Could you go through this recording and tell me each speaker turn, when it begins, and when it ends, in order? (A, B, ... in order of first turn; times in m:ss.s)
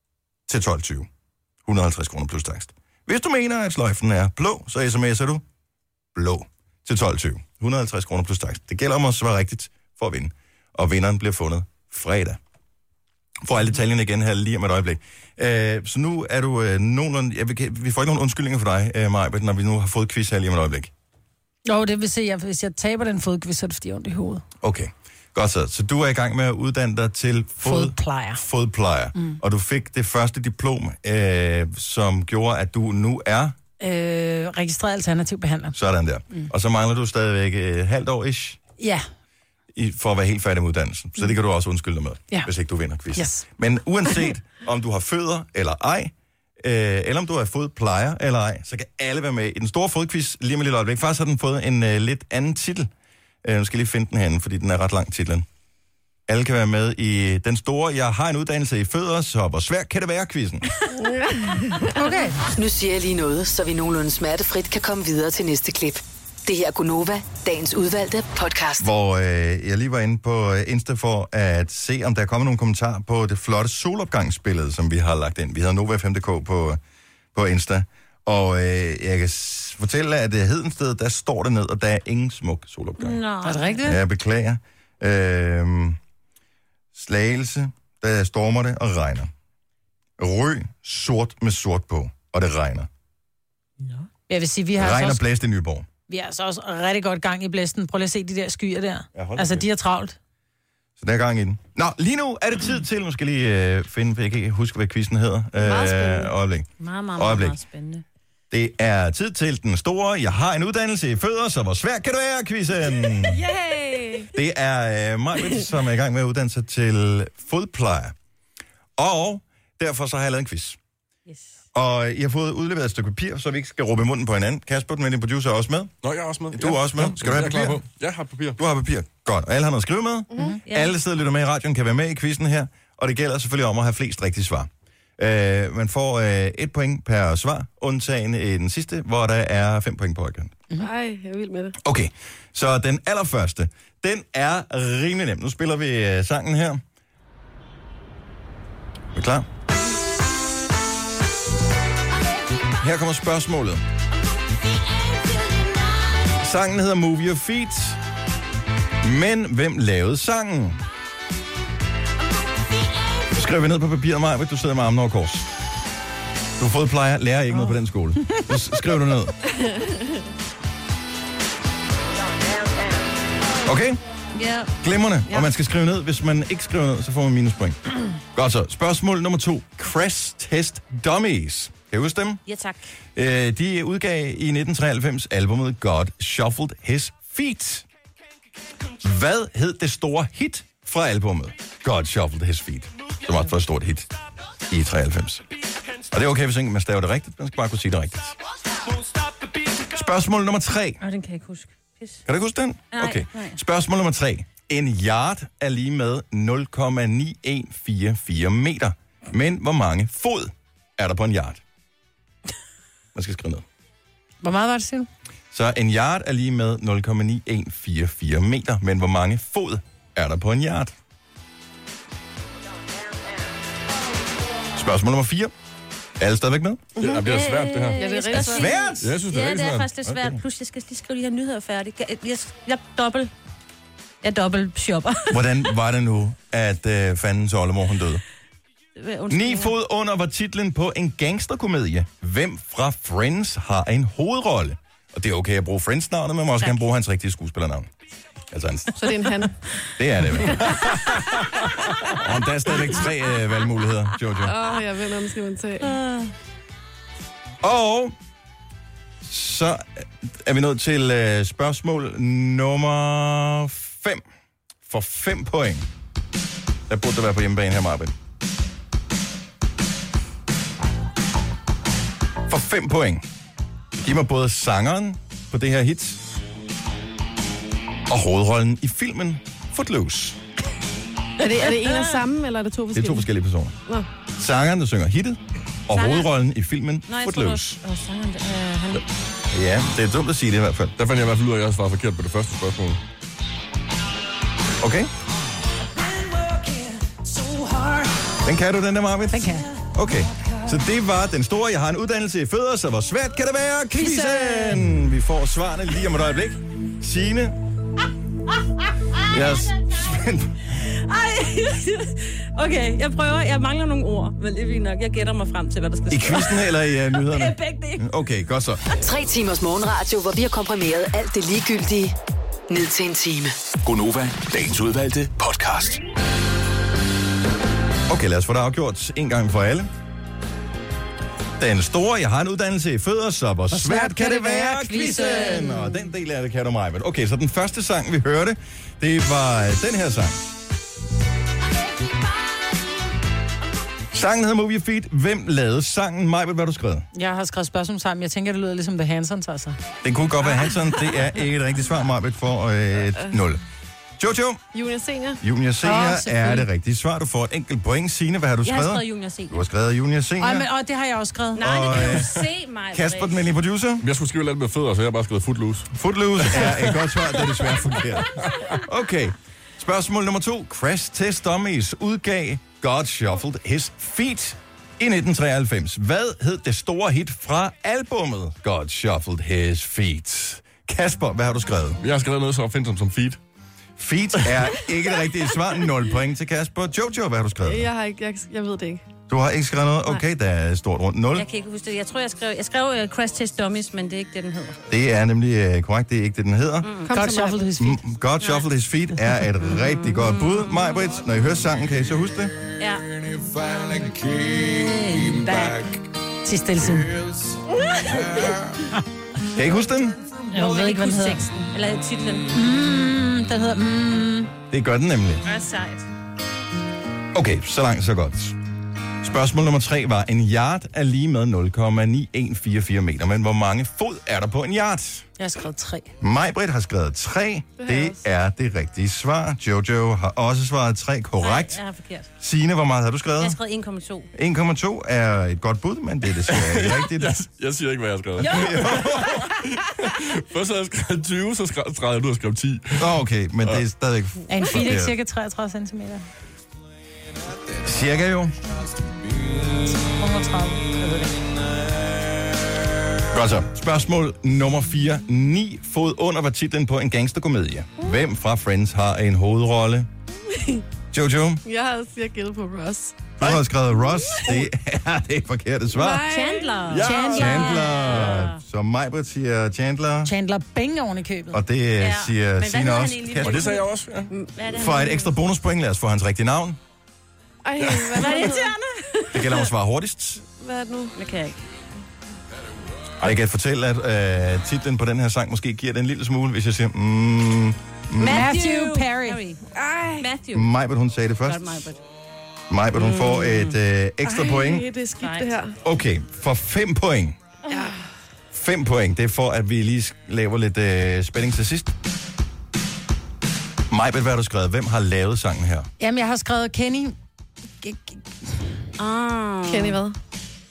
0:00.5-0:01.1 A
0:01.6-0:05.4 A
0:06.1-0:12.4 A
0:13.4-0:20.9 A
0:21.6-0:24.4 B
0:24.6-0:33.6 A
0:27.6-0:28.4 B
0:33.8-0:35.8 B
0:35.7-0:38.6 A
0:38.8-0:39.0 B
0:39.7-0:52.9 A
0:43.1-0:43.4 B
0:53.4-0:55.4 A
0:56.3-1:00.6 A
1:01.0-1:01.9 C
1:02.0-1:02.4 B
1:02.5-1:08.9 D
1:08.8-1:16.8 A
1:17.3-1:23.2 A
1:23.0-1:23.8 E
1:23.4-1:24.0 B
1:23.8-1:26.0 A
1:26.9-1:29.3 A
1:30.2-1:32.9 A
1:34.3-1:35.2 B
1:34.8-1:35.9 A
1:36.1-1:40.2 B
1:39.1-1:39.6 A
1:41.0-1:47.6 A
1:45.6-1:46.3 C
1:46.8-1:48.0 E
1:48.5-1:53.4 A
1:53.2-1:54.3 C
1:54.3-1:58.1 A
1:59.0-2:00.8 A
2:01.3-2:01.5 E
2:01.7-2:06.0 A
2:06.0-2:08.6 F
2:06.5-2:07.8 A
2:08.6-2:20.6 A
2:10.3-2:10.6 C
2:10.6-2:11.0 E
2:20.8-2:21.8 C
2:21.8-2:26.8 A
2:29.1-2:29.4 A
2:32.8-2:33.8 A
2:36.3-2:38.0 A
2:39.0-2:40.8 A
2:43.3-2:45.5 A
2:46.6-2:49.3 A
2:49.5-2:50.0 C
2:53.6-2:54.0 A
2:54.3-2:54.7 E
2:54.8-2:57.8 A
2:58.3-3:02.4 A
3:02.4-3:02.8 E
3:03.2-3:07.8 A
3:09.0-3:14.1 A
3:14.7-3:15.4 A
3:16.1-3:18.4 A
3:19.9-3:21.0 A
3:21.0-3:22.2 E
3:22.3-3:31.6 A
3:22.9-3:23.6 E
3:33.1-3:33.6 A
3:34.4-3:35.1 B
3:35.5-3:40.9 A
3:44.7-3:45.5 A
3:46.2-3:46.9 A
3:47.0-3:47.2 C
3:47.0-3:48.5 F
3:47.2-3:53.3 E
3:48.0-3:48.7 C
3:48.4-3:49.2 A
3:49.0-3:49.9 F
3:50.0-3:50.4 A
3:54.2-3:55.6 E
3:55.3-3:58.2 A
3:59.0-3:59.7 E
3:59.3-4:07.9 A
4:08.5-4:08.9 A
4:09.0-4:09.6 C
4:10.0-4:11.0 A
4:12.1-4:14.5 A
4:14.4-4:16.0 C
4:15.8-4:16.3 E
4:17.6-4:18.1 A
4:19.2-4:24.2 A
4:24.8-4:25.9 A
4:26.9-4:28.1 A
4:32.5-4:33.2 A
4:34.0-4:36.2 A
4:38.1-4:40.4 A
4:41.4-4:43.2 C
4:41.4-4:42.2 E
4:42.9-4:43.7 A
4:44.4-4:47.8 A
4:45.9-4:46.3 E
4:47.1-4:49.0 E
4:49.0-4:51.0 A
4:51.0-4:53.0 F
4:54.8-4:55.1 A
4:56.5-4:56.8 E
4:58.4-5:07.6 A
4:59.3-4:59.7 B
5:03.9-5:04.9 B
5:09.3-5:10.5 A
5:10.7-5:18.1 E
5:16.1-5:18.8 A
5:19.0-5:22.2 D
5:22.7-5:23.5 D
5:23.8-5:26.0 G
5:28.1-5:29.9 A
5:31.6-5:40.4 A
5:33.7-5:36.0 B
5:44.1-5:47.1 A
5:47.1-5:49.8 B
5:50.0-5:53.6 A
5:54.2-5:54.6 A
5:54.7-5:55.4 C
5:55.4-6:00.7 A
5:55.8-5:56.7 B
5:58.6-5:59.6 E
6:00.4-6:02.2 B
6:01.6-6:03.5 E
6:01.6-6:04.0 A
6:04.0-6:05.9 F
6:05.9-6:22.0 A
6:06.4-6:06.7 F
6:22.0-6:23.4 F
6:24.0-6:27.9 A
6:27.6-6:29.0 C
6:29.3-6:31.5 A
6:31.3-6:34.8 E
6:34.9-6:36.9 A
6:36.8-6:37.1 E
6:37.0-6:37.7 C
6:37.1-6:38.0 B
6:37.8-6:42.5 A
6:38.4-6:38.7 E
6:39.6-6:40.9 E
6:44.5-6:45.8 E
6:46.4-6:47.1 B
6:47.9-6:48.5 E
6:49.5-6:50.2 A
6:50.5-6:52.6 E
6:50.5-6:51.5 B
6:52.5-6:54.5 B
6:54.7-6:55.4 A
6:55.4-6:56.1 E
6:57.3-6:58.6 A
6:59.2-7:05.2 A
7:05.4-7:06.1 B
7:06.2-7:11.8 A
7:07.8-7:08.2 C
7:11.4-7:12.3 E
7:12.4-7:13.6 A
7:13.4-7:14.3 E
7:14.3-7:17.4 A
7:16.4-7:23.8 F
7:18.4-7:19.4 A
7:18.4-7:19.1 E
7:23.0-7:25.1 A
7:24.5-7:26.2 B
7:27.8-7:28.6 A
7:29.9-7:31.4 B
7:33.3-7:40.1 A
7:40.5-7:40.8 C
7:41.1-7:41.6 A
7:41.6-7:43.5 C
7:43.4-7:46.3 A
7:44.3-7:44.6 C
7:45.9-7:46.9 C
7:46.1-7:48.6 E
7:46.9-7:47.4 F
7:47.0-7:48.0 B
7:47.2-7:50.3 A
7:50.2-7:51.6 B
7:51.5-7:53.8 A
7:52.0-7:53.9 E
7:53.4-7:54.3 F
7:54.5-7:55.3 E
7:54.7-7:56.8 A
7:57.6-7:59.6 C
7:57.8-7:58.1 F
7:58.1-7:59.0 E
7:59.3-8:00.4 A
8:00.4-8:01.2 C
8:01.2-8:01.6 E
8:03.2-8:08.6 A
8:08.2-8:09.6 E
8:08.2-8:09.4 B
8:09.7-8:10.3 C
8:10.2-8:10.7 E
8:10.5-8:11.8 A
8:11.4-8:12.0 E
8:12.7-8:14.9 A
8:13.0-8:13.8 E
8:14.2-8:15.7 C
8:15.2-8:15.6 E
8:15.8-8:17.4 A
8:18.5-8:22.0 A
8:23.9-8:25.9 A
8:26.0-8:27.1 B
8:27.8-8:28.6 B
8:29.0-8:30.0 E
8:29.7-8:30.2 C